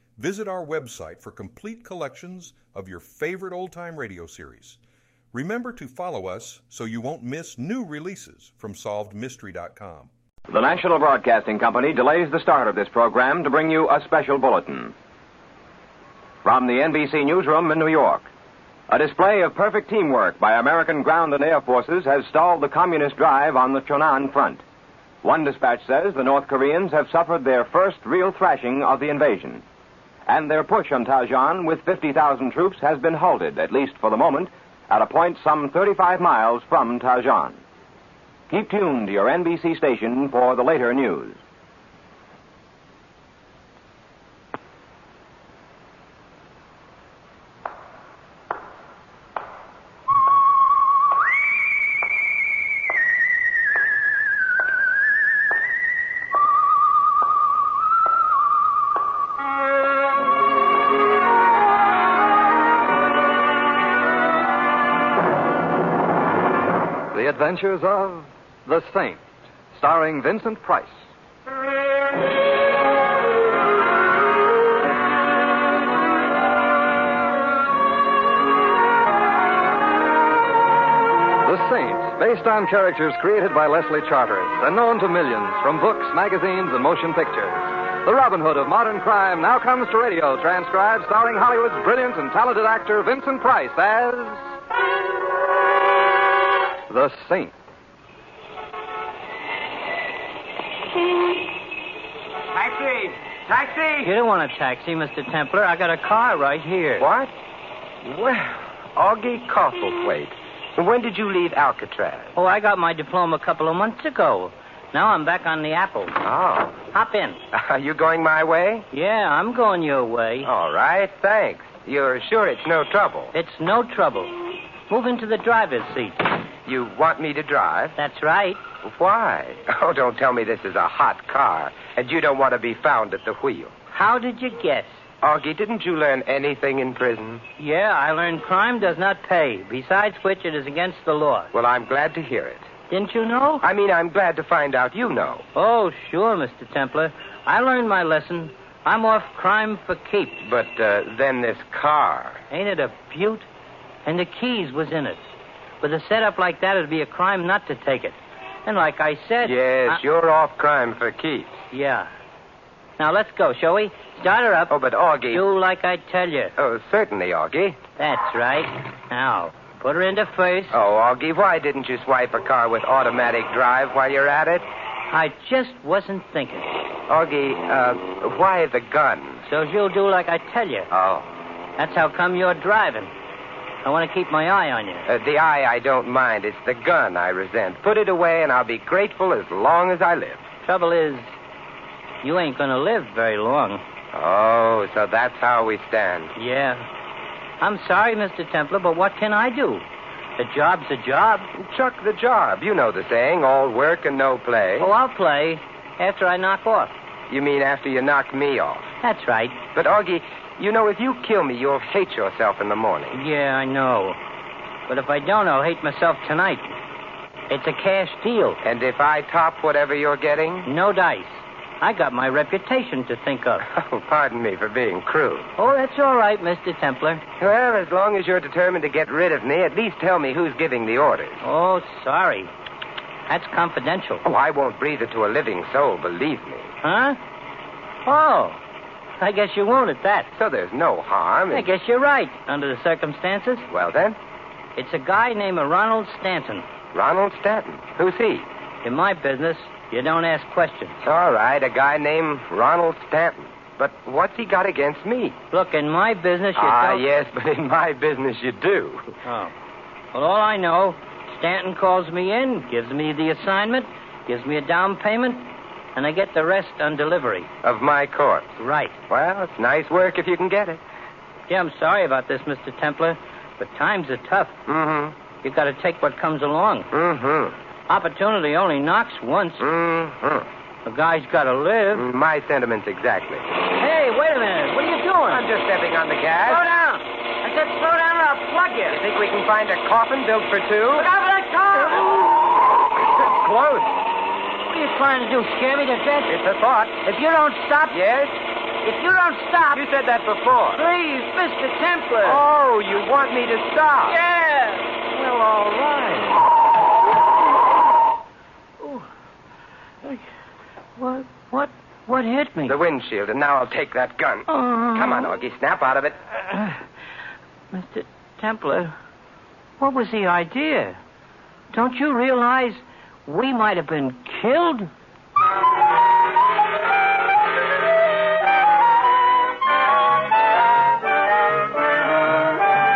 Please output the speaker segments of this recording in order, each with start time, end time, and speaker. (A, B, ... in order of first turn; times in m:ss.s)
0:00.2-0:04.8 A
0:05.3-0:10.1 A
0:10.5-0:14.9 B
0:16.4-0:18.3 B
0:18.9-0:24.6 B
0:25.2-0:29.6 B
0:30.3-0:37.6 B
0:38.5-0:41.4 B
1:07.1-1:09.2 C
1:09.7-1:11.0 C
1:21.4-1:34.4 C
1:36.9-1:37.5 C
1:42.6-1:44.1 D
1:44.0-1:47.1 E
1:47.0-1:47.3 D
1:48.0-1:52.3 D
1:52.3-1:56.2 E
1:56.2-1:56.9 D
1:56.9-1:57.4 E
1:57.5-1:58.9 D
1:58.9-2:00.5 E
2:00.4-2:03.3 D
2:03.3-2:06.3 E
2:06.6-2:08.0 D
2:08.0-2:08.6 E
2:08.8-2:13.8 D
2:13.9-2:15.0 E
2:15.2-2:17.4 D
2:17.6-2:21.5 E
2:21.5-2:22.7 D
2:22.9-2:23.6 E
2:23.6-2:25.4 D
2:25.5-2:30.4 E
2:30.4-2:32.4 D
2:32.5-2:33.5 E
2:34.0-2:35.2 E
2:35.8-2:40.0 E
2:39.4-2:41.6 D
2:41.7-2:42.1 E
2:43.0-2:44.7 E
2:44.7-2:45.4 D
2:45.3-2:46.5 E
2:46.6-2:47.8 D
2:48.0-2:50.7 E
2:50.7-2:54.6 D
2:55.1-2:56.7 E
2:57.1-2:59.4 D
2:59.5-3:00.9 E
3:00.9-3:01.3 D
3:01.8-3:03.1 E
3:03.8-3:05.0 E
3:05.1-3:10.4 D
3:10.6-3:11.3 E
3:12.2-3:13.8 E
3:14.1-3:16.3 D
3:16.4-3:16.8 E
3:17.6-3:19.8 E
3:20.4-3:21.5 E
3:21.5-3:24.9 D
3:24.8-3:26.9 E
3:27.3-3:28.9 D
3:29.0-3:29.6 E
3:29.7-3:33.2 D
3:33.1-3:34.2 E
3:34.9-3:36.8 E
3:37.5-3:38.6 E
3:38.6-3:40.7 D
3:40.6-3:43.6 E
3:43.6-3:45.5 D
3:45.6-3:47.2 E
3:47.4-3:51.4 D
3:51.4-3:52.5 E
3:53.3-3:54.2 E
3:54.2-3:56.7 D
3:56.8-3:57.2 E
3:58.0-3:58.6 E
3:59.2-4:00.3 E
4:00.3-4:01.7 D
4:01.5-4:03.7 E
4:03.7-4:04.2 D
4:04.8-4:06.7 E
4:06.9-4:08.5 D
4:08.8-4:11.0 E
4:11.0-4:15.4 D
4:15.5-4:17.0 E
4:16.6-4:19.1 D
4:19.2-4:19.5 E
4:20.1-4:27.5 E
4:27.6-4:30.8 D
4:28.6-4:29.0 E
4:31.5-4:34.6 E
4:34.7-4:35.1 D
4:35.4-4:36.9 E
4:36.9-4:37.6 D
4:37.9-4:39.6 E
4:39.6-4:40.4 D
4:40.8-4:42.1 E
4:41.9-4:43.4 D
4:43.8-4:45.5 E
4:45.3-4:46.7 D
4:46.4-4:49.0 E
4:48.8-4:51.1 D
4:51.0-4:52.4 E
4:53.1-4:53.9 D
4:54.7-4:56.3 E
4:56.3-4:57.0 D
4:57.0-4:58.0 E
4:57.9-4:58.3 D
4:58.8-4:59.8 E
4:59.7-5:00.8 D
5:00.7-5:02.4 E
5:02.2-5:04.2 D
5:04.1-5:05.0 E
5:05.1-5:06.4 D
5:08.8-5:09.0 E
5:11.0-5:12.8 E
5:12.6-5:16.2 D
5:14.5-5:15.3 E
5:16.4-5:16.8 E
5:17.7-5:18.9 E
5:19.8-5:21.0 E
5:21.7-5:24.9 E